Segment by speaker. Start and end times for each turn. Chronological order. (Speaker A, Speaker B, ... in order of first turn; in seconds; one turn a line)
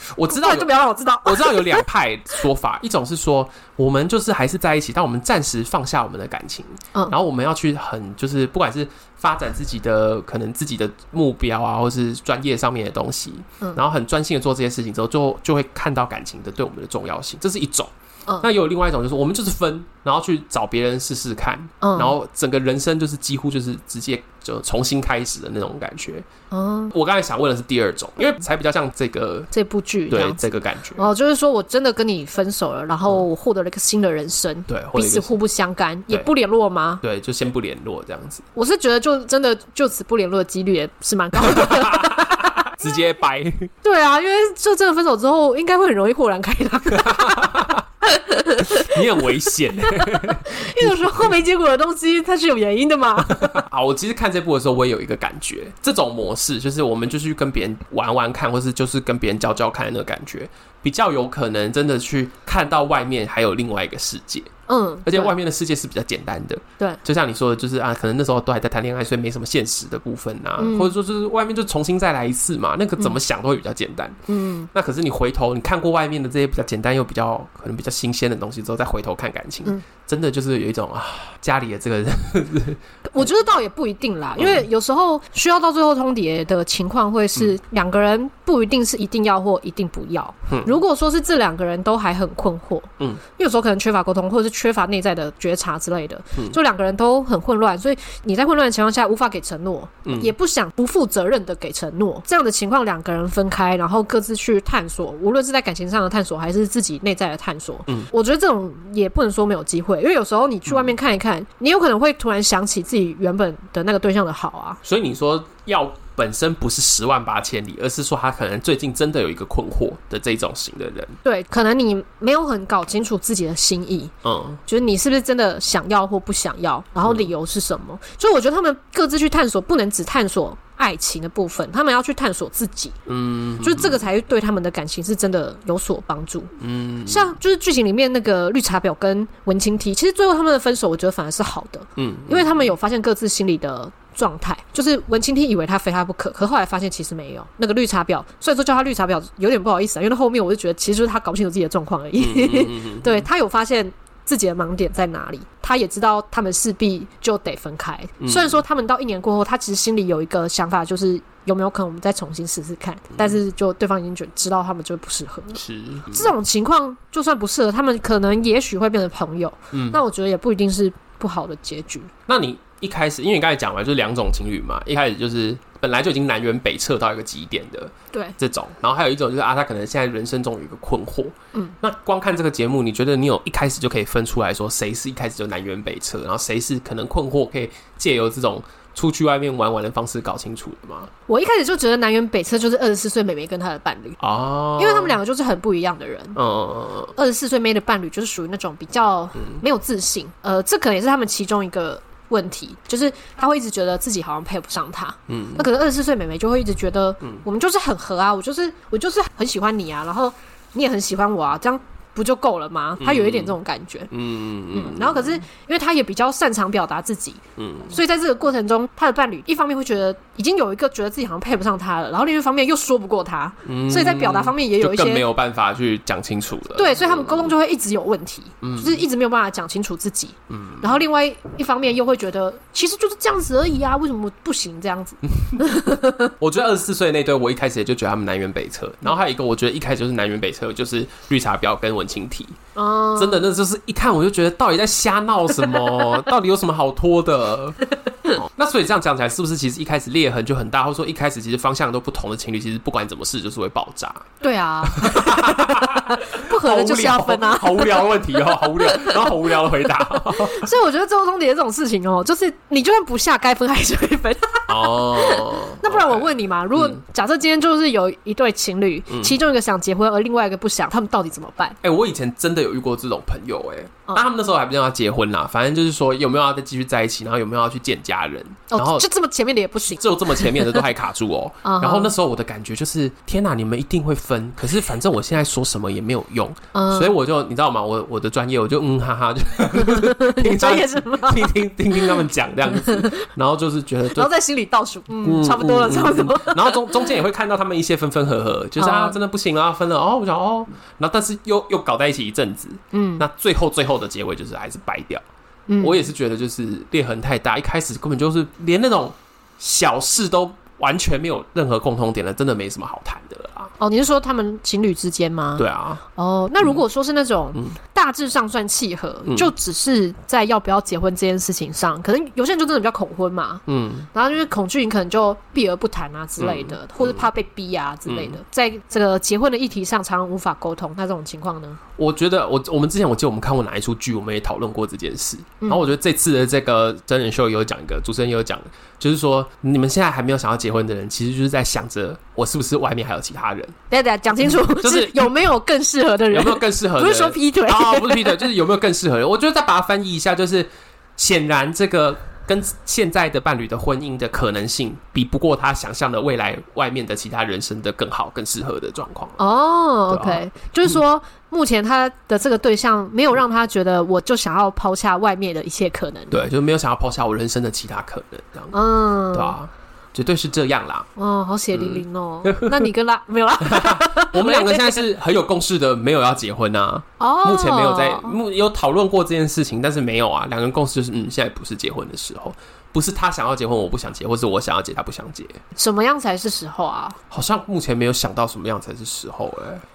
Speaker A: 0.2-0.7
Speaker B: 0.3-1.8
Speaker A: 1.2-26.3
Speaker B: 21.8-22.1
Speaker B: 26.5-26.9
Speaker A: 26.9-29.5
Speaker B: 29.5-30.4
Speaker A: 30.1-31.1
Speaker B: 31.0-37.0
Speaker A: 34.7-35.3
Speaker A: 37.0-38.5
Speaker B: 38.5-42.7
Speaker A: 41.4-43.7
Speaker B: 43.8-49.0
Speaker A: 47.0-47.8
Speaker A: 48.6-51.3
Speaker B: 49.9-53.6
Speaker A: 53.3-64.5
Speaker B: 64.7-65.3
Speaker A: 65.0-74.2
Speaker B: 70.6-70.9
Speaker B: 74.3-74.7
Speaker A: 74.7-82.8
Speaker B: 83.1-114.8
Speaker A: 84.4-84.7
Speaker A: 100.1-100.3
Speaker A: 114.8-121.2
Speaker B: 121.2-124.1
Speaker A: 124.2-124.6
Speaker B: 124.7-133.0
Speaker A: 133.1-134.0
Speaker B: 133.6-136.6
Speaker A: 136.6-137.3
Speaker B: 137.1-172.1
Speaker A: 142.0-142.5
Speaker A: 152.2-153.3
Speaker A: 158.2-158.6
Speaker A: 165.6-166.3
Speaker A: 169.7-170.0
Speaker A: 172.3-191.1
Speaker B: 191.3-194.2
Speaker A: 194.2-195.2
Speaker B: 194.8-196.4
Speaker A: 196.4-197.1
Speaker B: 197.2-214.1
Speaker A: 205.3-205.7
Speaker A: 213.0-213.6
Speaker A: 214.1-215.4
Speaker B: 214.7-225.2
Speaker A: 217.6-217.9
Speaker A: 223.7-227.5
Speaker B: 226.8-236.3
Speaker A: 228.6-229.0
Speaker A: 230.5-231.0
Speaker A: 236.4-242.6
Speaker B: 242.8-243.5
Speaker A: 243.2-254.3
Speaker B: 254.4-259.2
Speaker A: 254.9-260.7
Speaker B: 260.3-271.8
Speaker A: 264.7-267.0
Speaker A: 269.1-269.4
Speaker A: 271.8-279.1
Speaker B: 278.7-280.8
Speaker A: 279.9-294.3
Speaker B: 281.6-282.1
Speaker B: 286.7-287.2
Speaker B: 289.8-293.2
Speaker B: 294.1-297.1
Speaker A: 295.2-305.2
Speaker B: 298.8-299.2
Speaker B: 302.9-303.2
Speaker B: 305.7-306.1
Speaker A: 305.8-313.7
Speaker B: 313.8-323.6
Speaker A: 315.6-316.0
Speaker A: 319.3-319.5
Speaker A: 323.7-324.1
Speaker B: 324.1-331.8
Speaker A: 326.4-327.2
Speaker A: 328.1-328.4
Speaker A: 332.0-343.8
Speaker B: 343.9-348.5
Speaker A: 344.4-345.3
Speaker A: 346.3-359.4
Speaker B: 359.4-366.5
Speaker A: 360.1-360.9
Speaker A: 366.3-368.8
Speaker B: 368.7-369.6
Speaker A: 369.3-371.1
Speaker B: 371.2-375.0
Speaker A: 371.7-372.9
Speaker A: 373.6-385.6
Speaker B: 377.2-378.4
Speaker B: 385.8-387.2
Speaker A: 387.3-389.8